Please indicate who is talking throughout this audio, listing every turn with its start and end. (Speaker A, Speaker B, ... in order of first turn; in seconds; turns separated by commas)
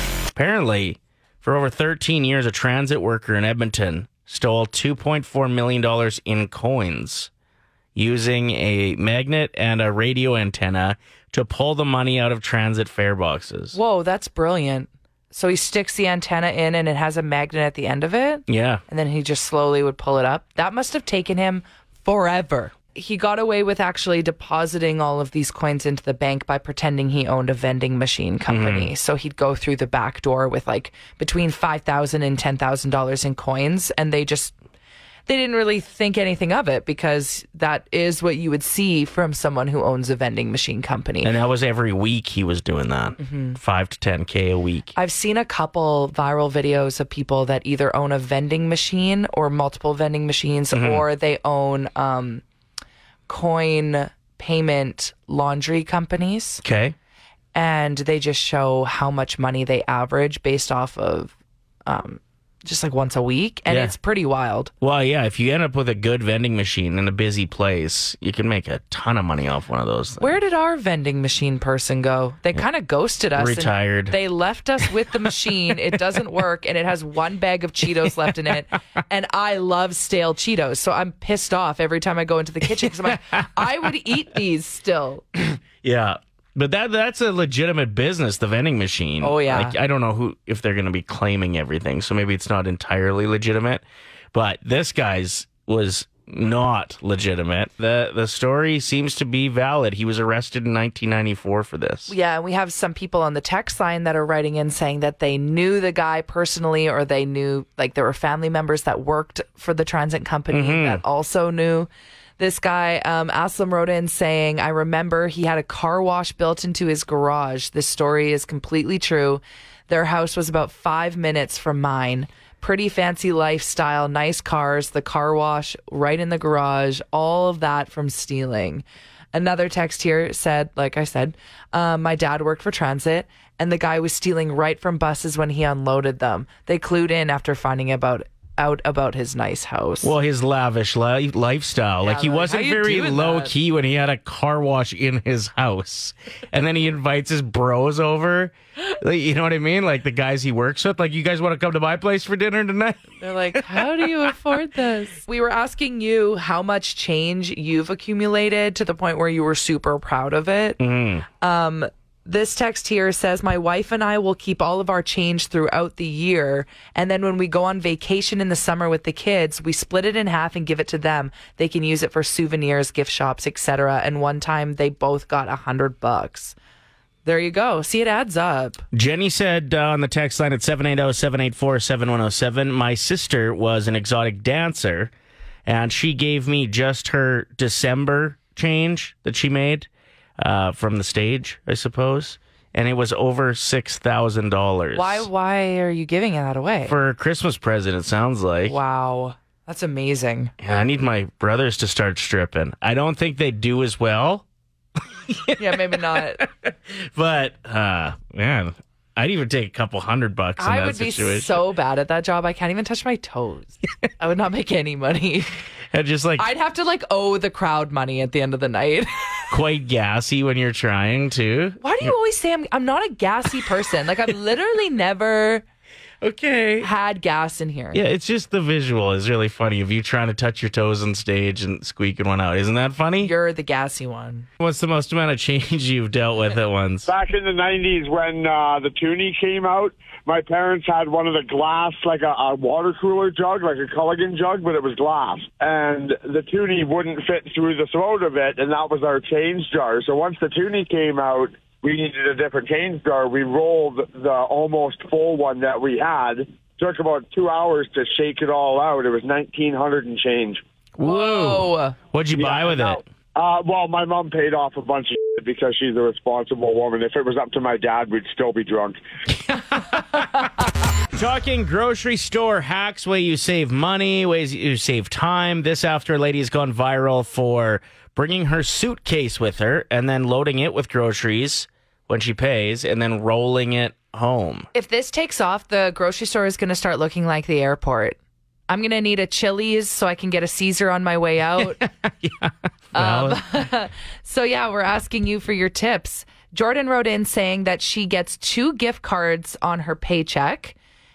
Speaker A: 0.4-7.3, Speaker A: 8.0-13.8, Speaker B: 13.7-34.5, Speaker A: 18.5-18.8, Speaker A: 28.5-28.9, Speaker B: 35.3-41.3, Speaker A: 41.2-44.9, Speaker B: 43.2-43.6, Speaker B: 45.0-52.4, Speaker A: 50.7-51.0, Speaker B: 53.3-56.6, Speaker A: 56.6-57.0, Speaker B: 57.5-61.3, Speaker B: 61.9-64.7, Speaker A: 63.7-64.0, Speaker A: 64.8-70.4, Speaker B: 70.2-85.2, Speaker A: 73.3-74.2, Speaker A: 85.3-102.1, Speaker B: 89.2-89.8, Speaker B: 102.1-140.1, Speaker A: 110.5-111.0, Speaker A: 140.0-154.3, Speaker B: 142.0-143.5, Speaker B: 153.2-160.8, Speaker A: 160.8-161.2, Speaker B: 161.4-176.6, Speaker B: 177.2-178.8, Speaker A: 178.9-185.1, Speaker A: 185.7-195.3, Speaker B: 194.9-196.9, Speaker A: 196.8-198.8, Speaker B: 198.7-200.5, Speaker A: 200.6-204.4, Speaker A: 205.3-211.7, Speaker B: 205.6-206.5, Speaker B: 210.6-215.5, Speaker A: 215.9-216.5, Speaker B: 216.4-219.4, Speaker A: 219.5-222.1, Speaker B: 221.8-225.6, Speaker A: 226.2-226.9, Speaker B: 226.8-228.0, Speaker A: 227.9-233.3, Speaker B: 233.2-234.5, Speaker A: 234.6-237.1, Speaker C: 237.1-260.6, Speaker A: 261.0-263.0, Speaker B: 261.0-262.0, Speaker C: 262.4-269.0, Speaker A: 269.4-270.4, Speaker A: 271.1-284.7, Speaker B: 284.7-288.2, Speaker B: 288.7-291.8, Speaker A: 291.6-293.6, Speaker B: 292.9-300.8